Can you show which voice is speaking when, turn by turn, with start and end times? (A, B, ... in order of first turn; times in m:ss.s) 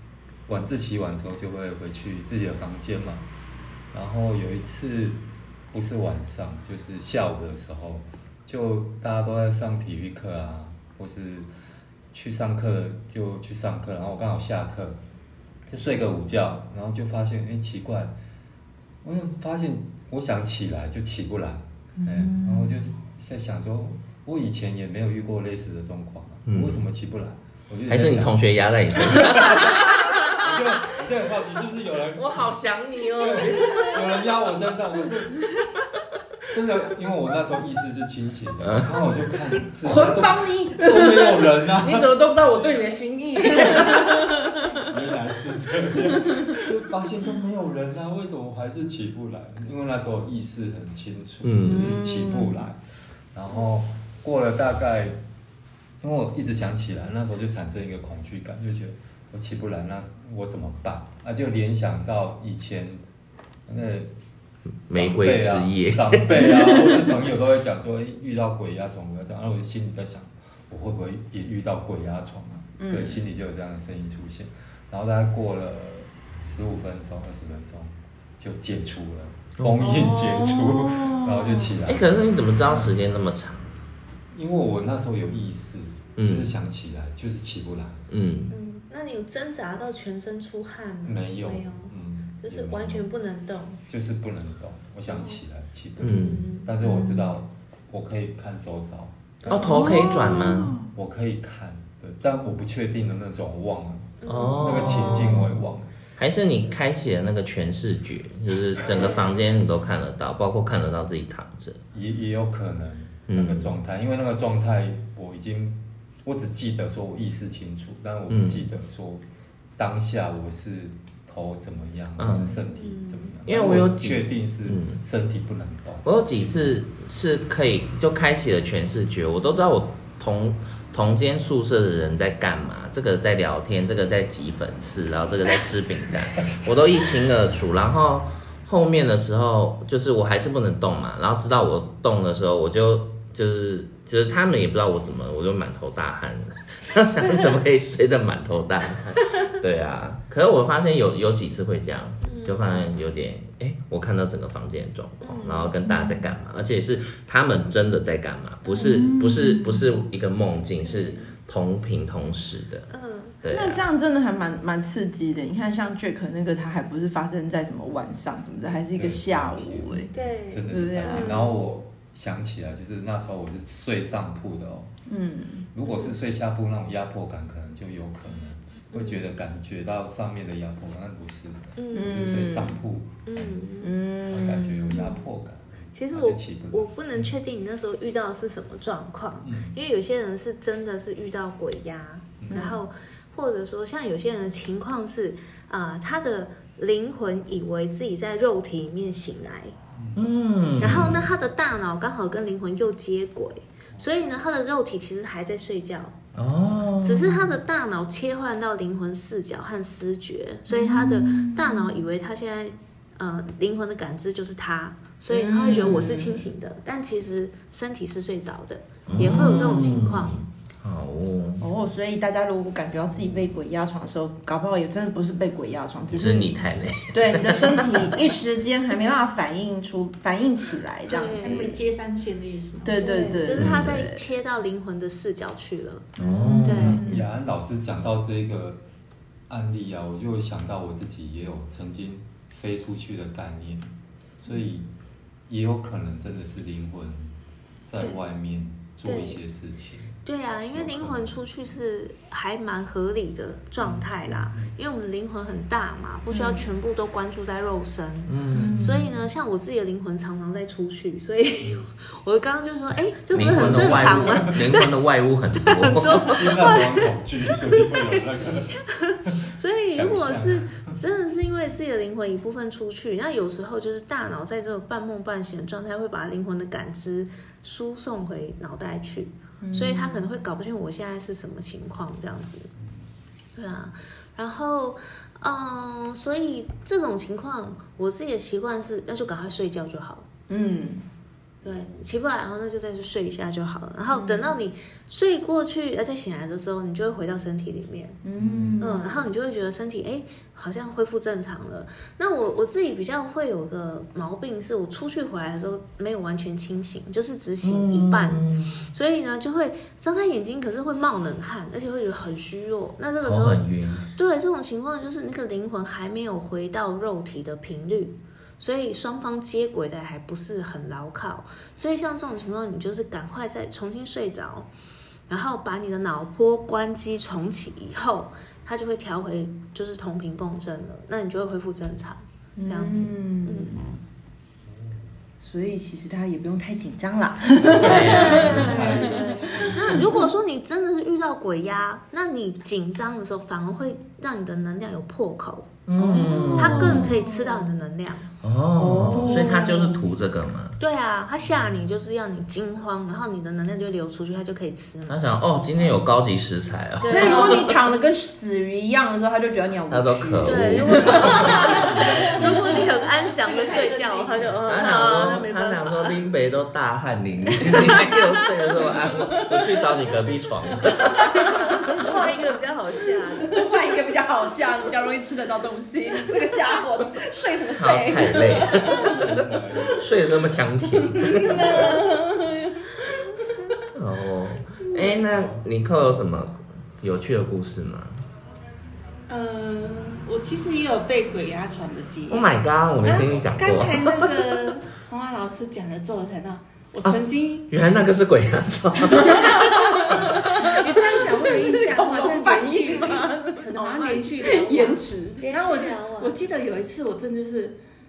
0:00.5-0:03.2 A
0:03.9-0:05.2 A
0:05.7-0:11.5 A
0:12.1-0:15.0 A
0:15.7-0:18.2 A
0:19.0-0:32.6 A
0:22.0-0:22.8 B
0:26.5-0:26.8 C
0:27.9-0:30.4 C
0:32.2-0:34.0 C
0:33.2-0:35.6 A
0:33.5-0:34.0 B
0:36.5-0:42.7 A
0:38.6-0:38.9 C
0:39.8-0:41.5 B
0:41.8-0:44.4 C
0:43.5-0:44.3 B
0:44.8-0:52.8 A
0:51.4-0:51.9 C
0:51.7-0:52.6 B
0:53.3-0:55.2 A
0:56.0-1:03.0 A
1:03.7-1:04.1 A
1:04.9-1:06.6 C
1:04.9-1:22.9 A
1:12.8-1:13.2 B
1:19.6-1:19.8 C
1:19.8-1:21.8 B
1:21.9-1:23.8 C
1:24.3-1:28.1 A
1:26.2-1:26.5 C
1:28.1-1:28.5 C
1:28.5-1:33.8 D
1:31.0-1:33.1 A
1:33.9-1:40.1 A
1:35.1-1:35.4 D
1:36.0-1:36.5 C
1:36.1-1:36.7 D
1:36.8-1:37.3 B
1:39.4-1:40.1 D
1:39.5-1:40.8 C
1:39.5-1:40.8 B
1:40.9-1:45.9 A
1:44.2-1:45.1 D
1:44.3-1:45.6 C
1:46.2-1:51.8 C
1:48.9-1:49.3 D
1:51.9-1:59.2 A
1:53.3-1:53.7 C
1:58.3-1:58.7 C
1:59.8-2:06.8 A
2:02.2-2:02.6 C
2:02.7-2:03.3 D
2:03.5-2:05.0 C
2:06.0-2:42.9 C
2:32.2-2:32.8 D
2:35.2-2:35.7 D
2:35.8-2:36.2 B
2:38.7-2:39.9 B
2:40.8-2:41.3 D
2:42.9-2:43.4 D
2:43.4-2:43.8 C
2:43.5-2:50.1 B
2:48.9-2:54.9 A
2:50.1-2:51.6 D
2:50.7-2:51.5 B
2:55.1-2:55.7 B
2:55.7-3:03.6 A
2:55.8-2:56.2 D
2:58.9-2:59.2 D
3:01.8-3:02.4 D
3:01.9-3:02.8 B
3:03.3-3:04.0 D
3:03.8-3:05.2 B
3:04.2-3:07.3 A
3:06.0-3:19.7 D
3:09.4-3:09.8 A
3:12.4-3:12.7 A
3:12.5-3:12.8 B
3:19.9-3:20.2 A
3:20.2-3:21.3 C
3:20.8-3:26.2 D
3:26.4-3:27.5 C
3:27.0-3:40.4 D
3:30.7-3:32.0 B
3:35.3-3:36.4 B
3:39.1-3:41.7 C
3:39.2-3:39.8 B
3:41.6-3:46.5 B
3:46.1-3:48.1 C
3:47.1-3:51.7 B
3:51.1-3:51.8 D
3:51.4-3:53.1 E
3:52.8-3:54.2 B
3:53.0-3:57.0 D
3:53.6-3:54.0 C
3:56.2-3:57.1 C
3:56.2-3:57.2 B
3:56.7-3:58.8 A
3:59.5-4:04.9 A
4:05.5-4:07.4 A
4:07.9-4:10.2 A
4:09.0-4:09.4 D
4:10.2-4:24.9 D
4:10.7-4:11.4 A
4:13.8-4:14.8 A
4:16.3-4:16.7 B
4:18.3-4:18.9 C
4:18.5-4:19.0 B
4:18.6-4:19.1 A
4:23.3-4:26.5 C
4:23.4-4:24.7 A
4:25.6-4:27.1 D
4:26.3-4:31.0 A
4:27.6-4:28.2 D
4:28.9-4:42.7 D
4:39.6-4:40.3 B
4:43.6-4:50.3 D
4:50.5-4:51.1 B
4:51.6-4:58.2 D
4:51.6-4:52.0 A
4:54.1-4:54.6 B
4:58.2-4:59.2 B
4:58.4-4:58.9 A
4:58.8-5:24.7 D
5:07.6-5:08.8 C
5:13.2-5:14.1 C
5:25.3-5:33.9 D
5:32.6-5:34.0 B
5:35.4-5:40.1 B
5:37.7-5:40.1 A
5:37.8-5:45.7 D
5:37.8-5:38.8 C
5:45.9-5:47.2 C
5:46.0-5:47.7 B
5:46.6-5:48.3 D
5:48.4-5:50.8 C
5:48.8-5:50.0 B
5:49.2-5:49.5 D
5:50.8-5:55.2 D
5:55.1-5:57.7 C
5:57.0-6:04.2 B
5:57.1-5:57.6 D
5:59.9-6:01.8 C
6:00.4-6:06.2 D
6:00.8-6:02.9 A
6:03.6-6:04.3 E
6:04.7-6:11.7 C
6:07.8-6:09.9 B
6:11.2-6:12.4 B
6:11.4-6:13.7 D
6:13.4-6:19.2 B
6:17.8-6:19.2 C
6:19.0-6:20.3 A
6:20.0-6:22.0 C
6:21.0-6:23.8 B
6:23.9-6:28.2 C
6:25.3-6:25.6 A
6:29.3-6:32.5 E
6:32.3-6:34.4 C
6:33.0-6:37.7 E
6:37.7-6:39.6 C
6:39.1-6:45.4 B
6:40.1-6:47.8 E
6:45.4-6:46.4 D